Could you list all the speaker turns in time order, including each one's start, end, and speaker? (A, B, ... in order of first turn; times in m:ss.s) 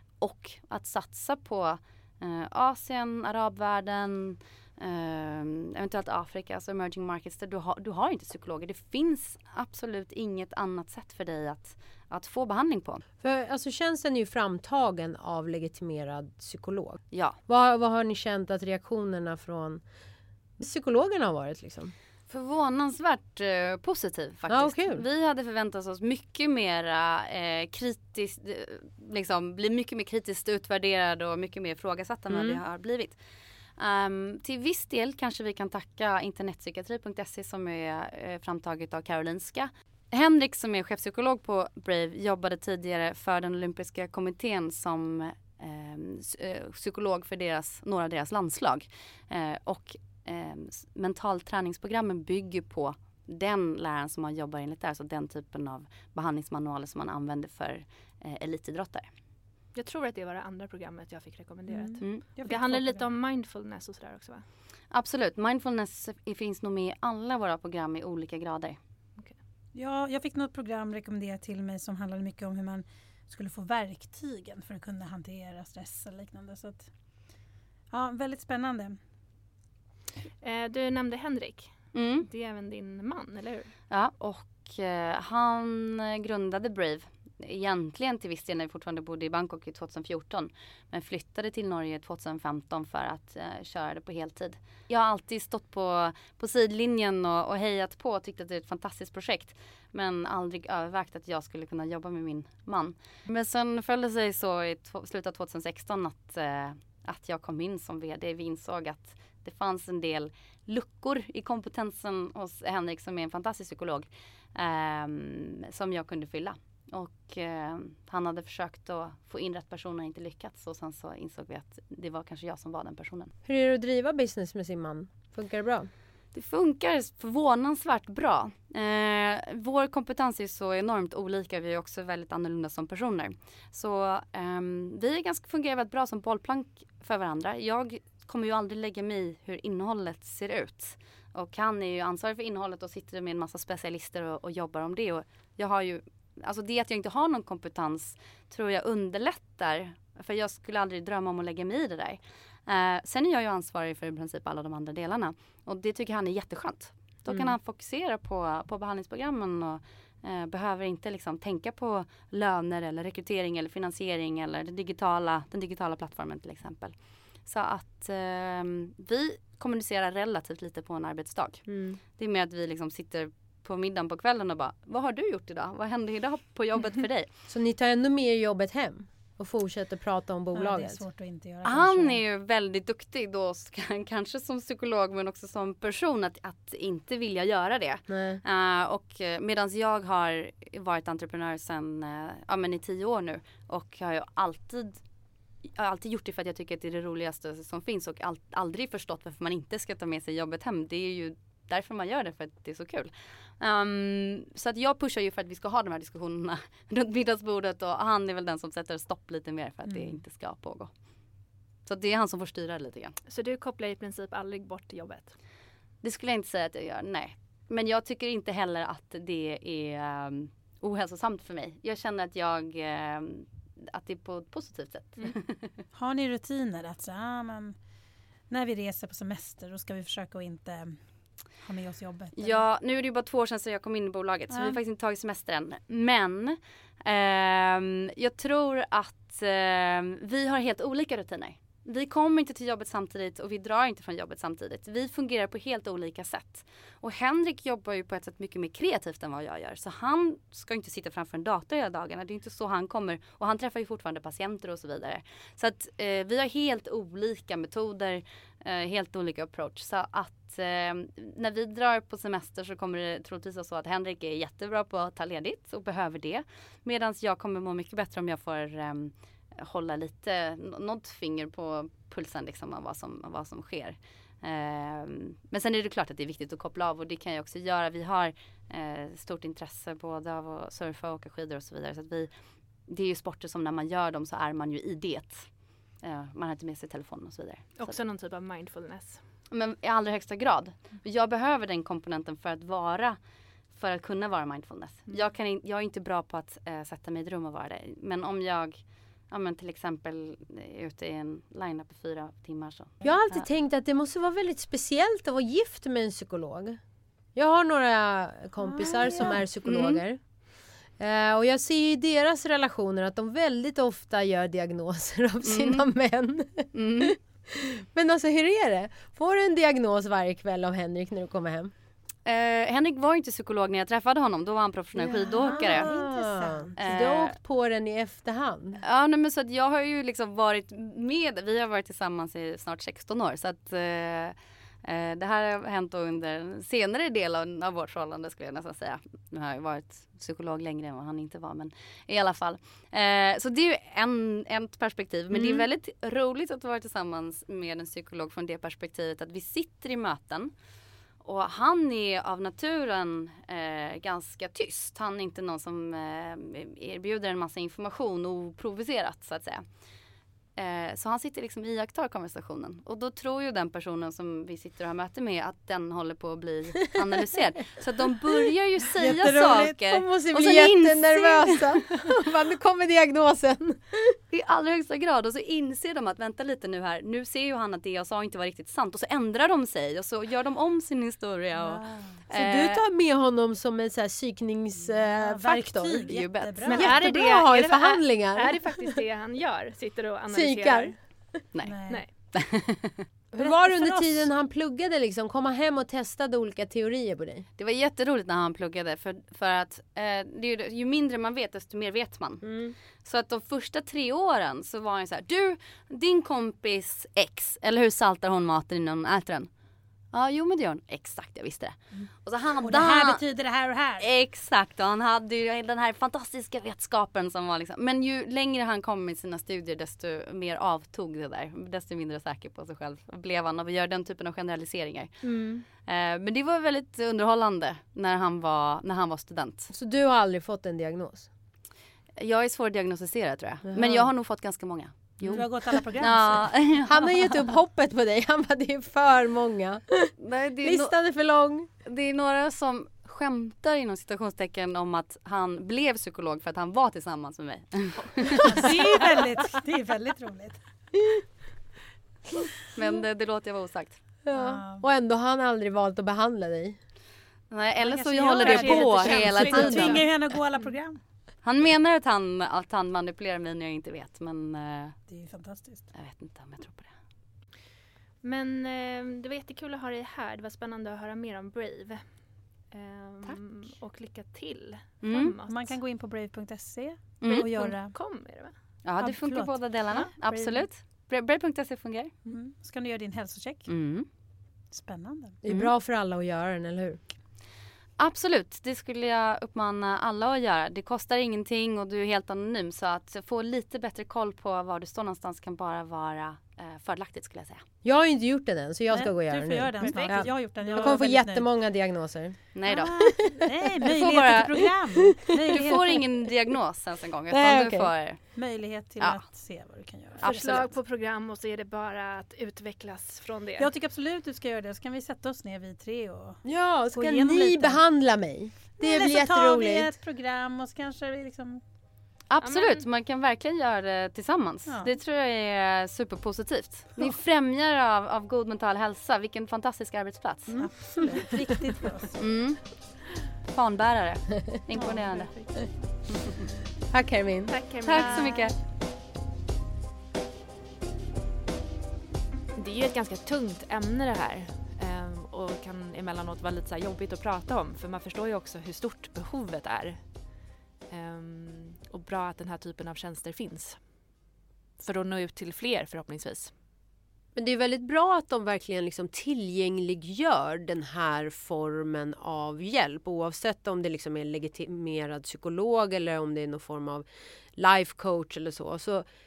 0:00.2-0:13.0 A
0:13.2-0:19.8 B
0:17.1-0:17.4 A
0:20.6-0:21.9 B
0:22.3-0:33.2 A
0:24.5-0:25.0 B
0:32.3-0:32.6 B
0:33.8-0:59.1 A
0:59.7-1:04.4 C
1:02.4-1:03.0 D
1:04.9-1:08.8 A
1:09.7-1:16.9 D
1:17.9-1:19.0 D
1:20.4-1:23.7 C
1:21.9-1:22.3 A
1:23.9-2:03.3 A
2:03.4-2:05.9 B
2:06.3-2:46.9 A
2:37.3-2:37.6 B
2:47.4-2:57.3 A
2:51.7-2:52.0 B
2:57.5-3:01.0 B
3:00.5-3:02.2 D
3:01.6-3:15.0 A
3:08.1-3:08.4 B
3:15.6-3:30.9 A
3:31.8-3:33.2 A
3:33.2-3:35.3 C
3:36.0-3:45.7 A
3:45.9-3:47.8 D
3:48.5-3:52.6 D
3:52.4-4:42.3 A
3:54.5-3:54.8 D
4:42.9-4:45.5 A
4:46.0-4:48.0 A
4:47.8-4:49.2 C
4:49.5-4:53.2 A
4:53.7-5:02.9 A
5:03.0-5:06.8 B
5:07.3-5:10.2 B
5:08.6-5:09.4 D
5:09.6-5:10.0 A
5:11.0-5:21.7 B
5:15.4-5:15.8 A
5:16.7-5:17.2 A
5:22.2-5:25.9 A
5:25.0-5:26.7 D
5:25.0-5:28.8 B
5:26.8-5:27.3 A
5:28.8-5:50.5 A
5:45.3-5:45.7 B
5:51.2-5:59.6 A
6:00.6-6:11.8 A
6:09.0-6:09.7 D
6:09.6-6:14.2 B
6:14.3-6:22.8 A
6:21.5-6:22.2 D
6:22.3-6:26.2 B
6:24.9-6:26.9 D
6:26.1-6:26.7 A
6:26.6-6:31.0 C
6:26.7-6:28.9 B
6:30.3-6:31.0 B
6:31.5-6:33.0 A
6:31.6-6:32.0 D
6:31.9-6:32.1 C
6:33.3-6:37.5 B
6:33.4-6:34.3 D
6:37.6-6:42.5 A
6:42.4-6:42.8 B
6:43.0-6:49.5 A
6:50.1-6:53.2 A
6:52.6-6:54.1 D
6:54.0-7:09.7 A
7:05.2-7:05.6 C
7:09.7-7:11.3 B
7:12.2-7:16.9 A
7:13.7-7:14.1 B
7:15.2-7:17.1 D
7:15.3-7:15.8 B
7:16.8-7:21.7 B
7:20.2-7:21.0 A
7:21.8-7:28.5 A
7:28.4-7:30.6 D
7:32.7-7:34.0 A
7:34.2-7:36.8 B
7:34.3-7:34.8 D
7:37.5-7:40.0 A
7:37.9-7:40.7 C
7:38.0-7:41.0 D
7:41.4-7:45.0 A
7:45.1-7:45.9 D
7:45.9-7:46.9 A
7:48.2-7:55.8 C
7:55.0-7:55.4 A
7:55.5-7:57.9 D
7:57.2-7:57.5 A
7:57.3-7:58.5 C
7:58.8-8:02.1 A
7:59.0-8:00.5 D
8:02.3-8:03.7 D
8:03.7-8:04.1 A
8:04.7-8:05.4 D
8:05.4-8:07.0 B
8:05.4-8:05.7 A
8:08.0-8:17.6 A
8:17.8-8:22.5 B
8:18.9-8:21.4 D
8:19.8-8:20.4 C
8:22.5-8:23.1 A
8:22.6-8:26.1 D
8:23.9-8:24.7 A
8:25.5-8:28.2 A
8:27.3-8:27.9 B
8:28.3-8:30.7 D
8:29.0-8:29.2 A
8:30.2-8:33.7 C
8:30.2-8:30.7 A
8:33.6-8:37.8 D
8:36.4-8:39.9 B
8:38.8-8:41.6 D
8:42.3-8:50.6 A
8:42.4-8:42.8 C
8:44.6-8:44.9 D
8:50.5-8:52.1 D
8:52.2-8:52.8 A
8:53.5-8:55.4 A
8:55.1-8:55.6 C
8:56.9-8:57.6 B
8:57.5-8:58.5 C
8:57.8-8:58.5 A
9:02.5-9:14.2 C
9:14.8-9:16.5 C
9:17.3-9:29.0 B